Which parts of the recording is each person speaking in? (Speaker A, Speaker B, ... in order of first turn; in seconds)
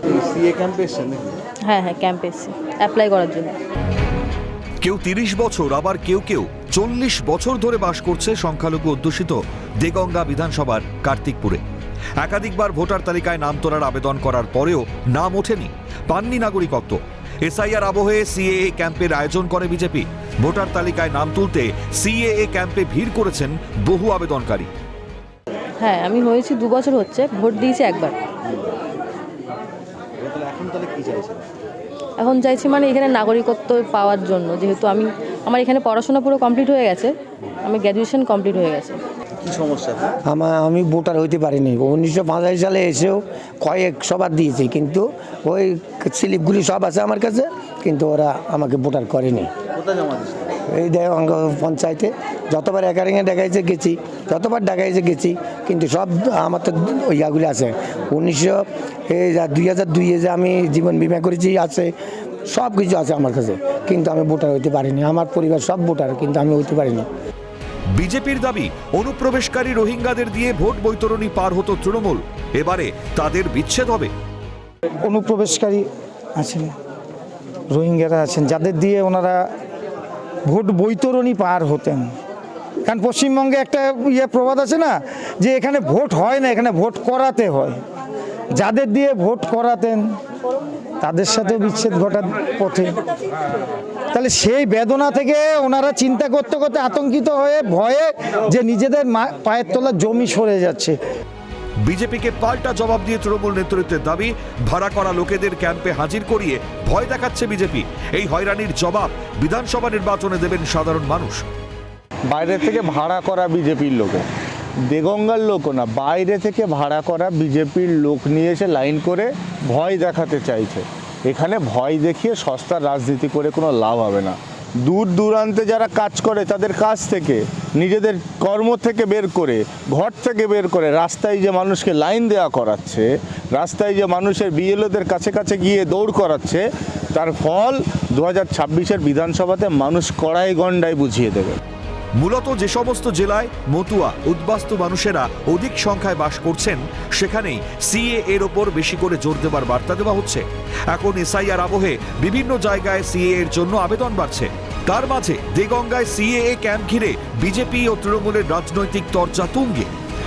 Speaker A: 0.1-1.4, 30.2-31.4, 39.5-40.1, 49.9-50.5
Speaker B: 1.6-3.5, 25.8-28.2, 32.2-39.0
Speaker C: 4.8-11.6, 12.2-24.7, 67.9-74.1, 101.8-111.4, 142.2-159.9
Speaker D: 40.3-49.5, 50.6-61.9, 62.5-67.1
Speaker E: 75.0-76.7, 77.7-79.4, 80.5-82.1, 82.8-87.8, 88.5-90.1, 91.0-93.0, 94.1-101.0
Speaker F: 112.3-114.2, 114.9-141.6